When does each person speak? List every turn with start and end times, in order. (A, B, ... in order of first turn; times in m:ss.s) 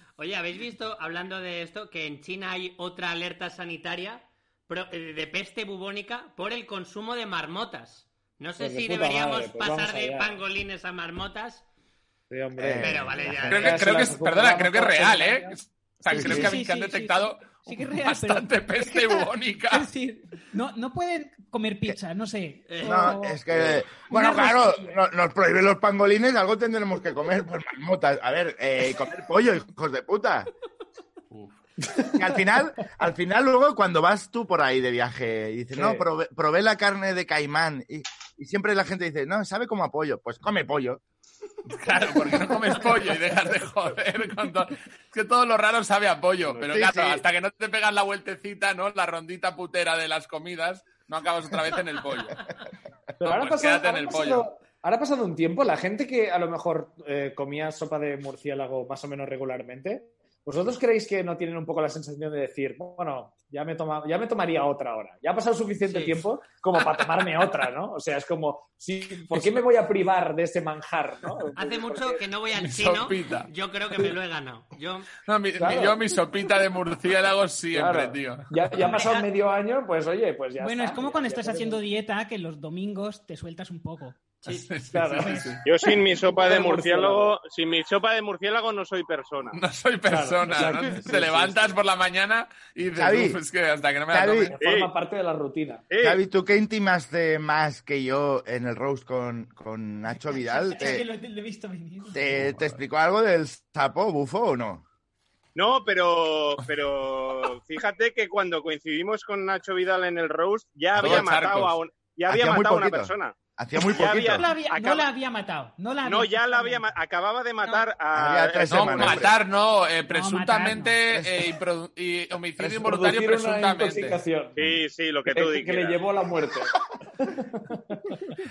0:00.2-0:11.7 A
0:08.6-0:10.4 B
0:12.3-0:15.6 B
0:12.6-0:13.7 C
0:12.8-0:13.8 A
0:13.5-0:19.9 D
0:16.1-0:16.6 C
0:16.1-0:25.0 E
0:22.7-0:23.2 A
0:22.8-0:30.5 C
0:31.3-0:31.6 D
0:31.8-0:32.1 B
0:32.1-0:41.0 C
0:35.8-0:36.0 B
0:41.7-0:52.5 D
0:46.6-0:47.2 C
0:53.2-1:12.2 B
0:53.2-0:54.5 D
1:05.8-1:06.2 A
1:11.6-1:15.1 A
1:12.6-1:13.5 D
1:15.2-1:18.5 D
1:15.6-1:16.0 B
1:17.7-1:21.8 B
1:18.8-1:19.2 E
1:20.6-1:24.4 E
1:24.5-1:25.6 D
1:24.9-1:25.4 B
1:25.2-1:25.6 E
1:25.6-1:29.6 F
1:26.2-1:27.3 B
1:29.5-1:34.6 D
1:30.1-1:31.8 B
1:32.9-1:33.4 C
1:34.1-1:34.5 C
1:34.5-1:35.9 B
1:34.6-1:34.9 F
1:35.9-1:36.2 F
1:36.0-1:41.1 C
1:40.3-1:42.3 E
1:42.1-1:44.8 C
1:42.5-1:42.8 D
1:45.6-1:55.1 F
1:51.0-1:51.8 D
1:52.3-1:54.5 C
1:54.4-1:56.8 E
1:56.0-1:59.3 F
1:58.1-1:59.3 C
1:58.7-2:04.2 D
2:00.1-2:01.0 E
2:01.1-2:01.5 C
2:02.6-2:02.9 C
2:02.8-2:04.6 B
2:04.6-2:06.0 F
2:05.3-2:08.2 B